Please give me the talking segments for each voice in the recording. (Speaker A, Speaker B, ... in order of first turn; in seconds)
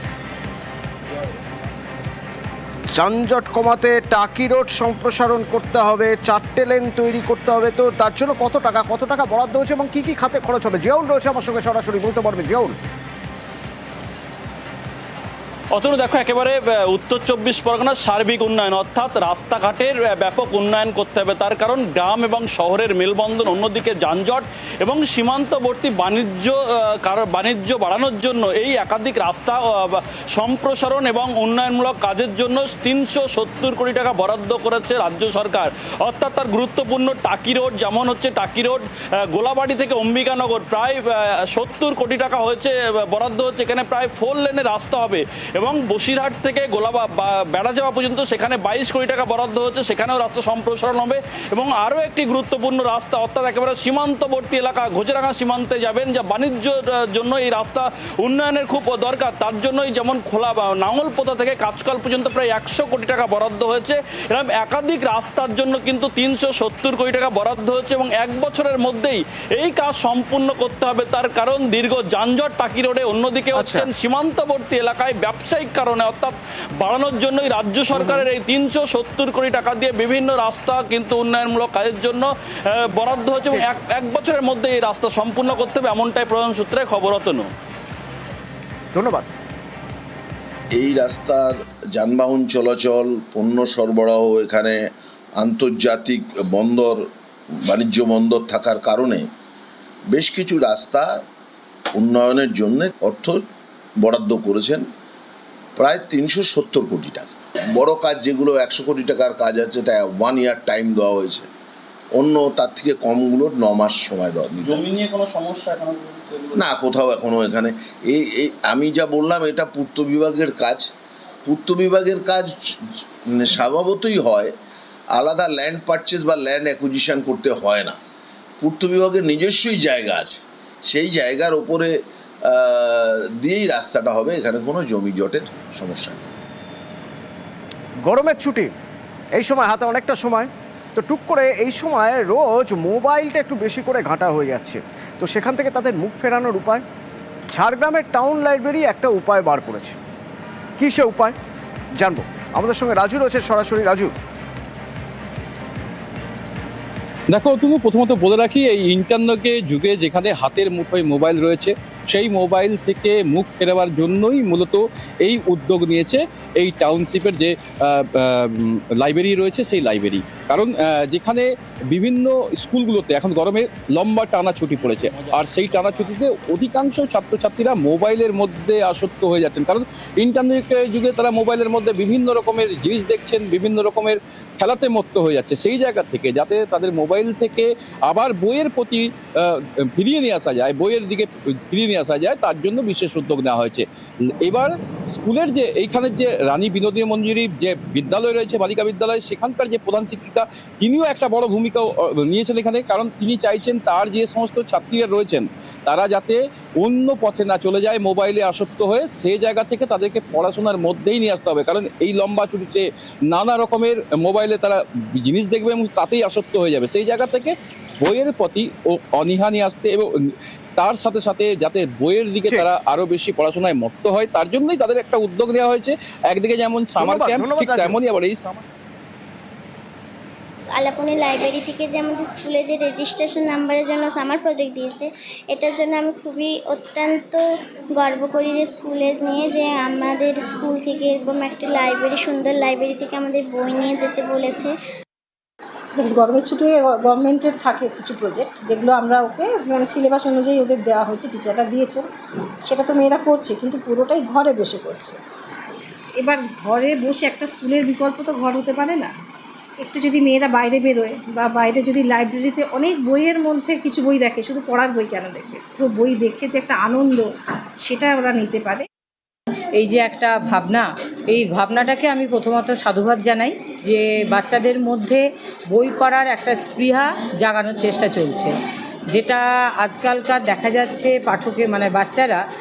Speaker A: 2.9-12.7, 73.5-73.9, 77.9-78.3, 88.9-89.3, 138.0-138.7, 139.3-146.8, 147.5-150.0, 150.8-151.3, 152.0-154.1, 227.0-228.0
Speaker B: 15.7-87.5
Speaker C: 90.7-94.8, 95.4-97.0, 97.7-99.2, 100.1-101.2, 101.9-103.4, 104.0-104.8, 105.8-111.5, 112.2-114.9, 116.5-120.9, 121.4-122.5, 123.3-124.5, 125.1-128.0, 128.6-131.9, 132.5-136.2
Speaker D: 114.7-116.4, 157.3-220.1, 220.8-228.6
Speaker E: 230.7-244.7
Speaker F: 245.9-252.0, 252.6-255.2, 256.2-259.1, 259.8-267.2, 267.8-268.9
Speaker G: 269.8-275.2, 275.7-278.5, 279.1-282.4